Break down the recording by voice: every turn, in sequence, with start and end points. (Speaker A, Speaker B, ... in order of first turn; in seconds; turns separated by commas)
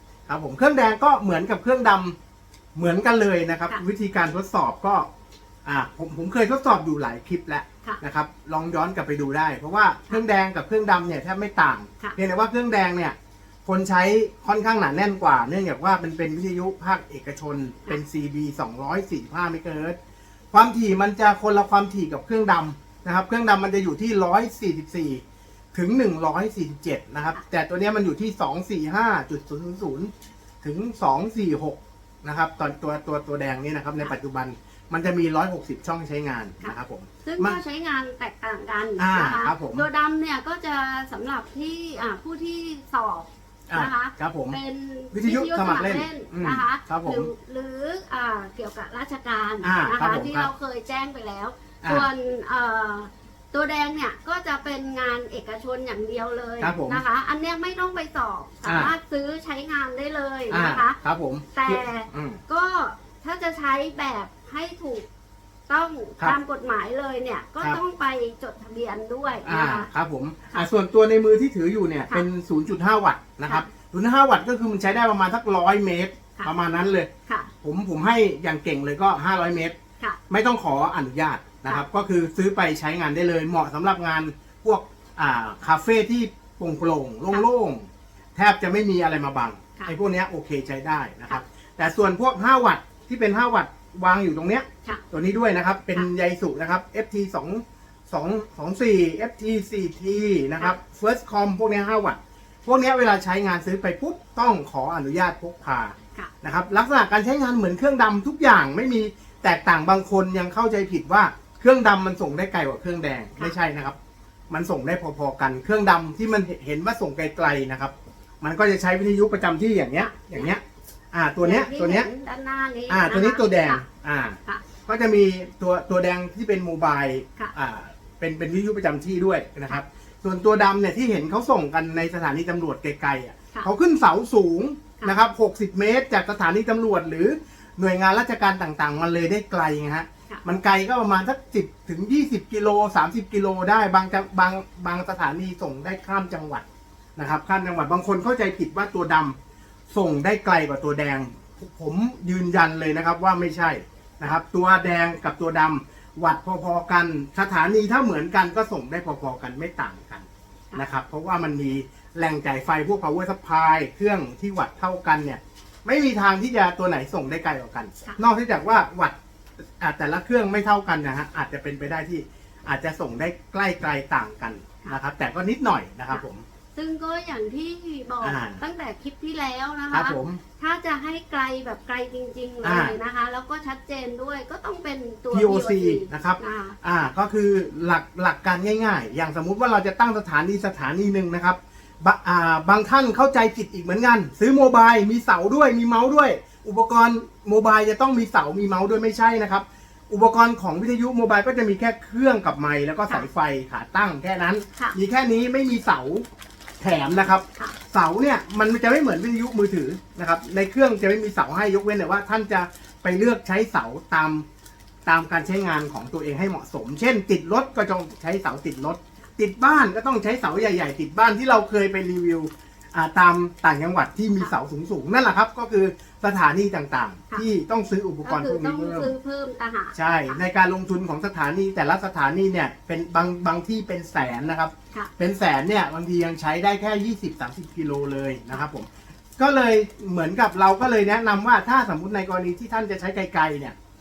Speaker A: 0.3-2.2, Speaker A: 2.8-5.1, Speaker A: 5.7-20.0, Speaker A: 20.5-37.6, Speaker B: 37.2-61.0, Speaker A: 39.0-39.9, Speaker A: 43.7-44.6, Speaker A: 45.1-47.3, Speaker A: 49.6-50.5, Speaker A: 51.8-52.1, Speaker A: 56.6-57.0, Speaker A: 58.6-58.9, Speaker A: 60.5-62.4, Speaker B: 61.5-65.1, Speaker B: 65.7-69.9, Speaker A: 69.5-77.1, Speaker A: 77.6-79.8, Speaker A: 80.3-114.0, Speaker A: 114.5-120.6, Speaker B: 120.0-120.5, Speaker A: 121.1-122.1, Speaker B: 121.4-123.8, Speaker A: 122.9-146.7, Speaker A: 147.2-149.4, Speaker A: 149.9-169.2, Speaker A: 169.8-176.4, Speaker B: 176.8-186.8, Speaker A: 178.2-178.6, Speaker A: 179.9-180.4, Speaker A: 182.6-183.0, Speaker A: 185.3-206.3, Speaker A: 206.8-214.4, Speaker A: 215.1-229.1, Speaker B: 228.2-230.4, Speaker A: 229.9-243.8